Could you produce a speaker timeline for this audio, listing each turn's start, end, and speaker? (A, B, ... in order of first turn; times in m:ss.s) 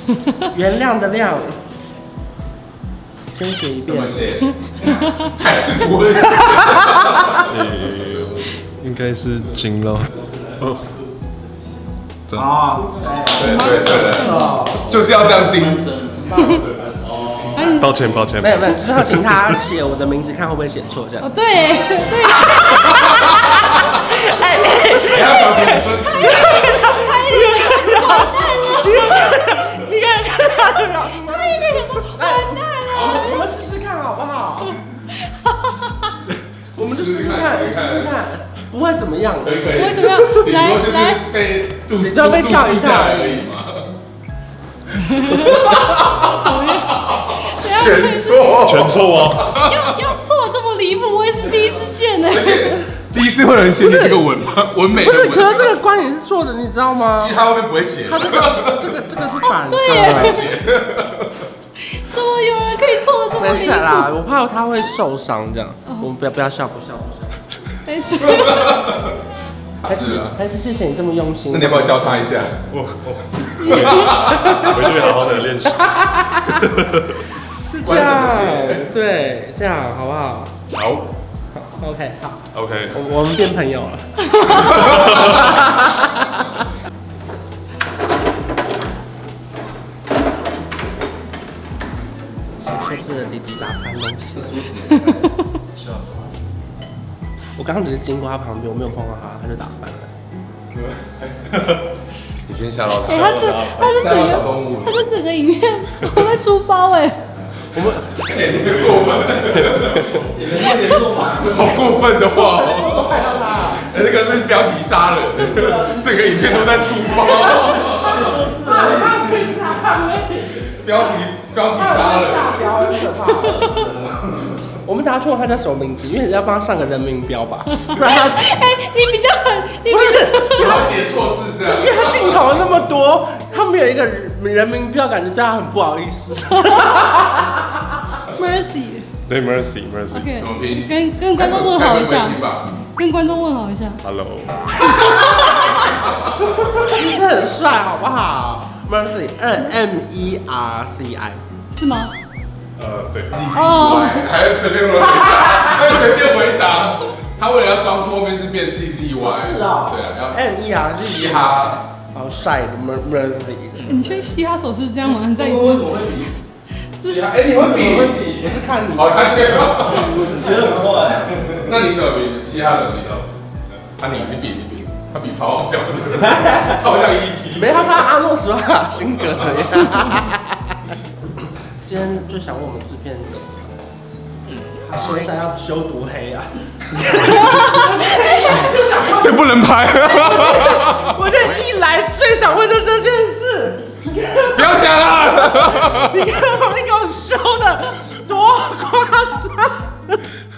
0:00.4-0:01.6 A
0:03.3-0:04.8 A
0:03.9-0:07.5 B
0:06.4-0:07.1 A
0:07.4-0:10.9 C
0:12.3-0:14.9 A
0:13.3-0:17.8 B
0:13.4-0:14.7 D
0:16.3-0:16.6 D
0:16.9-0:17.6 E
0:17.5-0:18.0 D
0:17.6-0:19.6 C
0:18.4-0:21.3 A
0:21.2-0:23.5 D
0:22.3-0:34.8 A
0:25.0-0:27.0 B
0:25.9-0:29.6 D
0:30.6-0:33.5 D
0:32.9-0:33.2 B
0:35.1-0:36.1 D
0:36.7-0:40.3 A
0:36.8-0:38.1 B
0:39.4-0:43.9 B
0:39.7-0:41.2 D
0:41.9-0:43.4 A
0:45.0-0:48.5 D
0:45.2-0:50.0 B
0:48.6-0:49.5 C
0:49.6-0:52.9 D
0:52.3-0:55.7 B
0:53.8-0:54.2 A
0:54.9-0:57.4 A
0:57.2-0:59.0 B
0:58.0-1:00.4 A
0:59.5-1:00.4 D
0:59.8-1:01.5 B
1:01.9-1:04.1 D
1:03.3-1:07.4 A
1:07.8-1:08.9 D
1:08.2-1:09.1 B
1:09.8-1:10.4 B
1:09.8-1:12.4 A
1:11.5-1:12.6 B
1:12.7-1:17.2 C
1:13.6-1:15.1 B
1:13.7-1:14.0 D
1:14.2-1:16.8 A
1:17.6-1:20.5 A
1:17.8-1:18.8 B
1:20.7-1:21.1 C
1:21.5-1:26.5 A
1:22.5-1:23.0 C
1:24.8-1:25.2 B
1:25.0-1:25.4 C
1:32.6-1:35.1 A
1:34.9-1:35.3 D
1:35.8-1:36.2 C
1:37.6-1:40.1 A
1:40.7-1:41.8 B
1:42.4-1:45.0 B
1:43.0-1:47.2 D
1:47.7-1:48.2 A
1:48.1-1:58.4 B
1:50.3-1:51.7 E
1:50.5-1:51.1 D
1:52.3-1:53.9 A
1:55.5-1:56.6 E
1:57.0-2:01.1 A
1:58.0-1:59.3 E
2:00.8-2:02.8 B
2:01.7-2:08.6 A
2:07.8-2:10.8 D
2:09.9-2:10.9 A
2:10.5-2:12.8 B
2:11.6-2:18.2 A
2:16.5-2:17.1 D
2:18.3-2:19.1 D
2:19.2-2:20.3 C
2:20.1-2:22.4 D
2:20.3-2:22.8 B
2:23.0-2:24.0 D
2:24.0-2:24.7 C
2:24.8-2:25.7 D
2:24.9-2:25.9 A
2:26.4-2:31.4 A
2:31.8-2:32.1 D
2:32.8-2:33.4 C
2:33.3-2:40.4 B
2:33.5-2:34.3 D
2:39.2-2:44.3 A
2:41.0-2:41.8 B
2:43.9-2:46.1 D
2:45.7-2:46.2 E
2:47.0-2:47.5 D
2:47.0-2:50.9 B
2:47.7-2:48.3 E
2:48.2-2:50.5 A
2:50.0-2:51.6 E
2:51.5-2:53.3 B
2:54.0-2:58.0 B
2:57.5-3:00.9 A
2:59.3-2:59.6 B
3:01.8-3:03.8 A
3:04.7-3:20.2 A
3:09.0-3:11.2 B
3:14.5-3:16.2 B